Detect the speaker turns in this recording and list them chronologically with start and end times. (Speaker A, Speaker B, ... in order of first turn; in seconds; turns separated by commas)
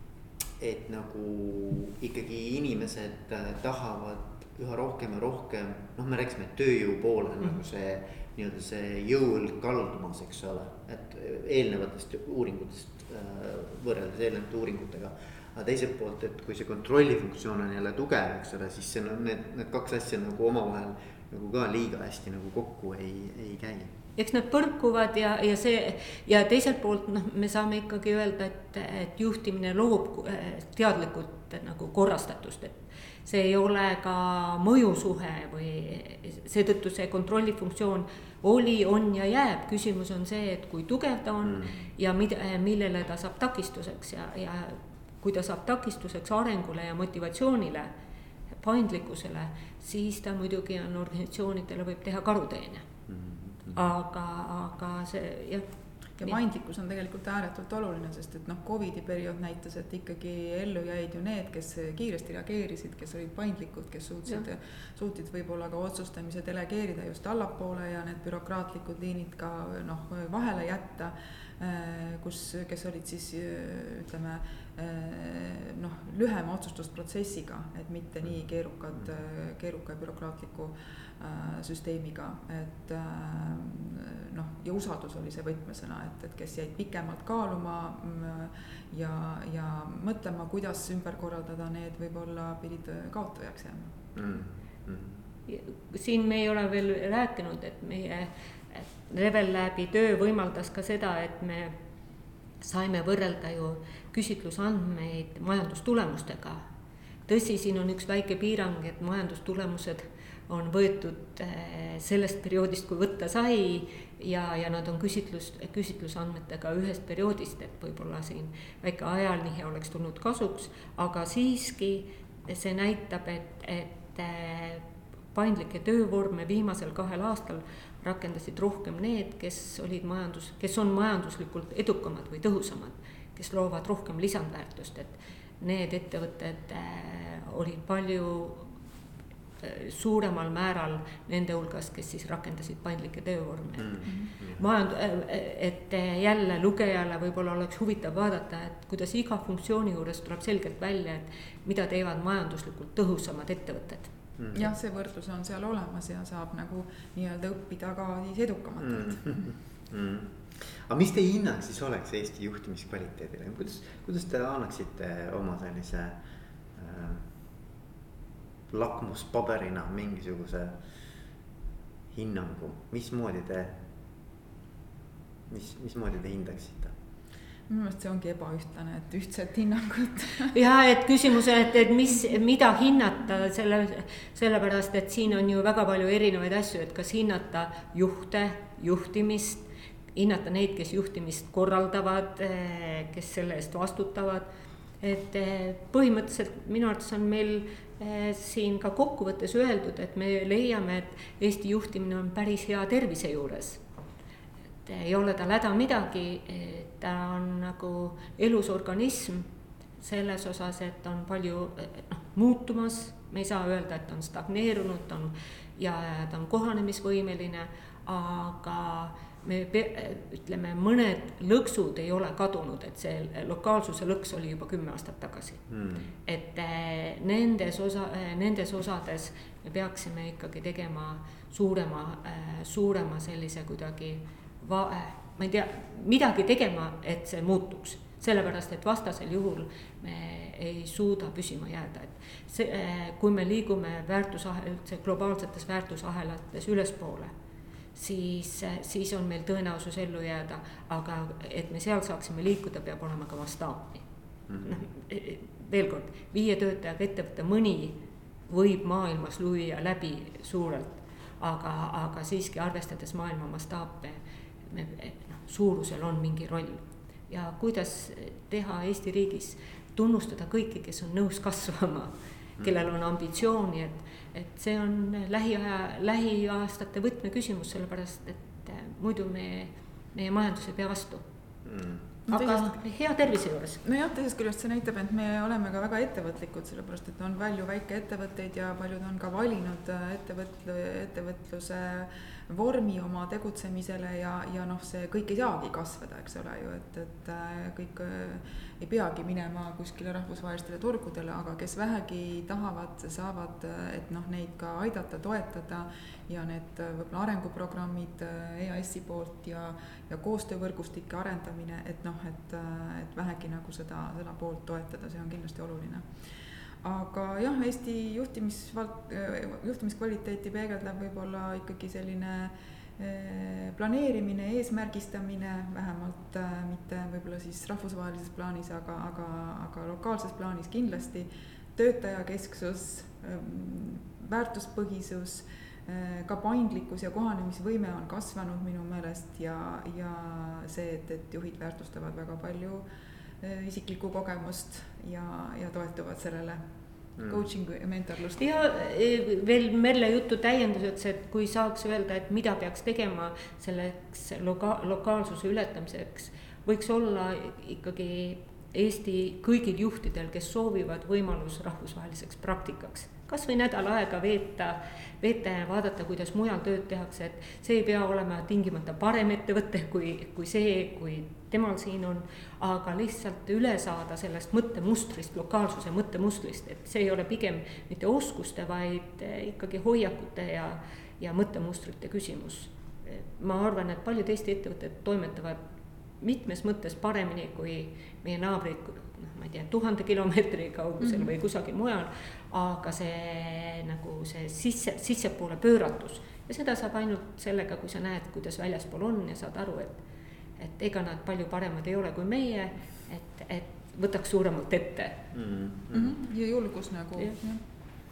Speaker A: 0.6-23.9, Speaker B: 24.2-47.9, Speaker A: 41.4-41.9, Speaker B: 48.6-52.9, Speaker A: 53.1-53.8, Speaker B: 53.7-55.7, Speaker C: 56.2-94.0, Speaker A: 94.1-95.2, Speaker B: 95.5-101.7, Speaker B: 102.6-106.6, Speaker B: 107.3-138.7, Speaker B: 139.6-154.1, Speaker A: 143.8-144.6, Speaker A: 154.4-154.7, Speaker C: 154.5-159.2, Speaker A: 158.8-166.2, Speaker A: 166.7-167.3, Speaker A: 168.7-170.8, Speaker A: 172.1-173.8, Speaker A: 175.5-176.9, Speaker C: 177.7-180.5, Speaker B: 180.5-194.5, Speaker B: 195.0-203.8, Speaker B: 204.8-209.5, Speaker B: 210.0-225.6, Speaker A: 225.7-226.1, Speaker B: 226.2-247.3, Speaker B: 247.9-254.0, Speaker A: 254.5-254.8, Speaker B: 254.6-264.2, Speaker B: 264.7-281.2, Speaker A: 281.6-282.1, Speaker C: 282.3-282.7, Speaker B: 282.3-283.8, Speaker C: 283.8-316.1, Speaker C: 316.8-342.8, Speaker C: 343.4-346.6, Speaker A: 347.2-347.4, Speaker C: 347.2-348.5, Speaker B: 348.4-385.6, Speaker B: 386.2-400.0, Speaker C: 391.0-391.3, Speaker B: 400.6-405.2, Speaker A: 405.3-406.1, Speaker C: 405.9-407.6